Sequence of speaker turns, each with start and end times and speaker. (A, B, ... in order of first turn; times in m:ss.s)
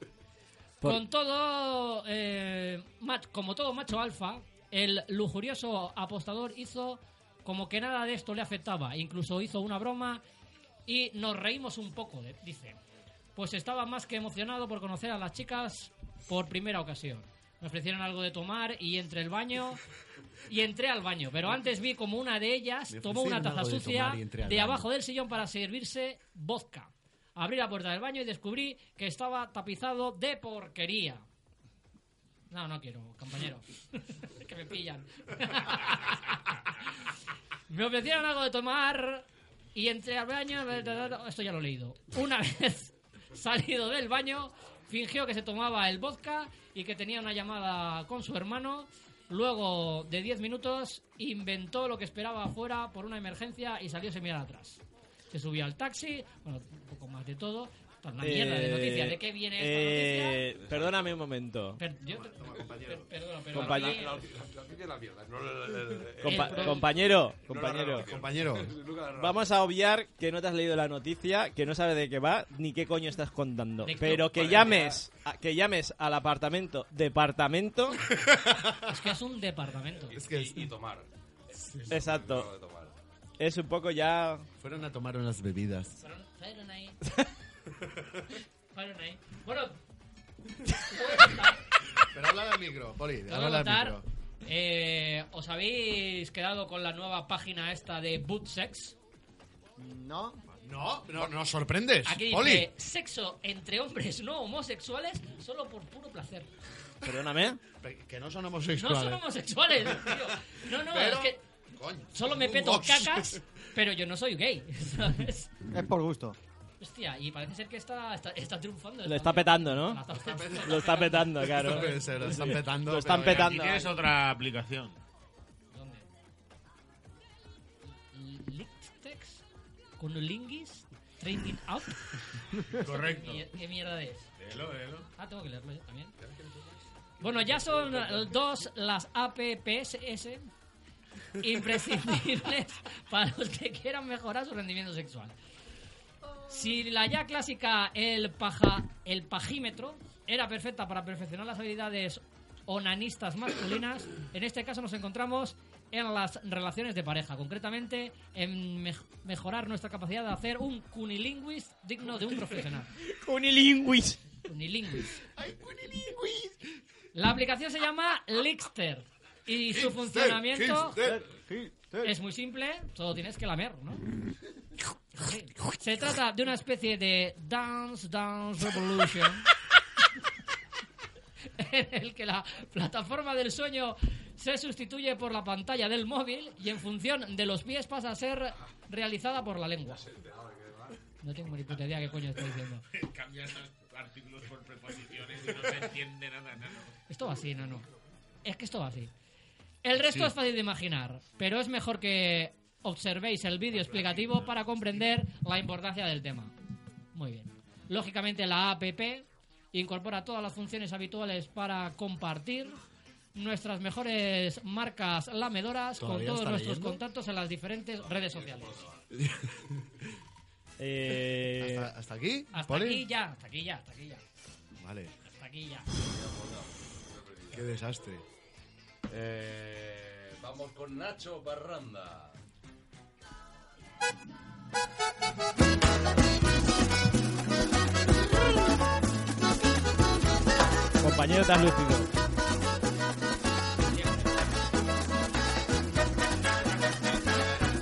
0:00.8-0:10.2 A
0:10.8-0:12.8 A
0:13.4-0:19.8 A
0:20.5-0:31.2 A
0:22.9-0:24.9 B
0:32.5-0:36.6 A
0:37.7-1:00.4 A
0:58.2-1:01.8 C
1:00.5-1:01.2 D
1:01.8-1:04.2 A
1:02.1-1:09.5 D
1:03.5-1:04.0 C
1:06.2-1:08.1 C
1:06.2-1:06.9 A
1:08.0-1:08.7 B
1:09.2-1:18.0 C
1:13.8-1:14.5 A
1:14.0-1:15.0 D
1:18.2-1:18.9 B
1:18.9-1:20.1 A
1:20.1-1:22.9 D
1:20.1-1:20.7 B
1:21.9-1:22.5 C
1:23.4-1:24.4 C
1:24.6-1:26.0 B
1:26.0-1:27.0 A
1:28.7-1:29.8 A
1:30.8-1:31.6 A
1:32.1-1:34.0 B
1:33.3-1:39.0 A
1:39.8-1:40.4 E
1:40.6-1:42.7 B
1:42.0-1:46.5 A
1:47.0-1:47.6 C
1:47.8-1:49.2 B
1:48.7-1:51.4 A
1:49.9-1:53.4 B
1:52.1-1:55.5 A
1:55.7-1:56.4 E
1:56.8-2:02.4 A
1:59.0-2:00.0 C
2:00.1-2:00.9 B
2:00.6-2:03.9 C
2:01.5-2:03.5 B
2:03.0-2:05.0 F
2:05.7-2:06.1 A
2:08.1-2:09.4 A
2:10.0-2:14.3 A
2:12.8-2:13.4 F
2:14.4-2:15.1 F
2:15.2-2:16.1 A
2:16.3-2:16.5 D
2:17.2-2:20.5 A
2:17.3-2:18.1 D
2:21.4-2:25.3 A
2:26.5-2:42.9 A
2:43.0-2:44.2 C
2:44.4-2:45.2 A
2:45.4-2:46.5 B
2:47.1-2:51.0 A
2:49.7-2:51.2 B
2:51.0-2:52.1 E
2:52.0-2:54.0 A
2:55.2-2:59.5 A
3:01.6-3:10.0 A
3:09.8-3:11.0 D
3:11.2-3:12.8 A
3:12.9-3:16.9 F
3:17.1-3:17.8 A
3:18.4-3:19.1 A
3:19.8-3:26.5 A
3:23.8-3:24.5 F
3:27.1-3:32.8 A
3:33.3-3:38.9 A
3:36.0-3:37.0 B
3:38.0-3:39.0 D
3:39.1-3:39.8 B
3:40.8-3:41.9 C
3:41.6-3:43.0 B
3:42.5-3:44.2 A
3:44.8-3:45.1 B
3:45.3-3:45.9 A
3:46.0-3:47.7 D
3:47.5-3:48.2 B
3:49.1-3:52.4 D
4:01.0-4:02.1 C
4:03.9-4:04.3 A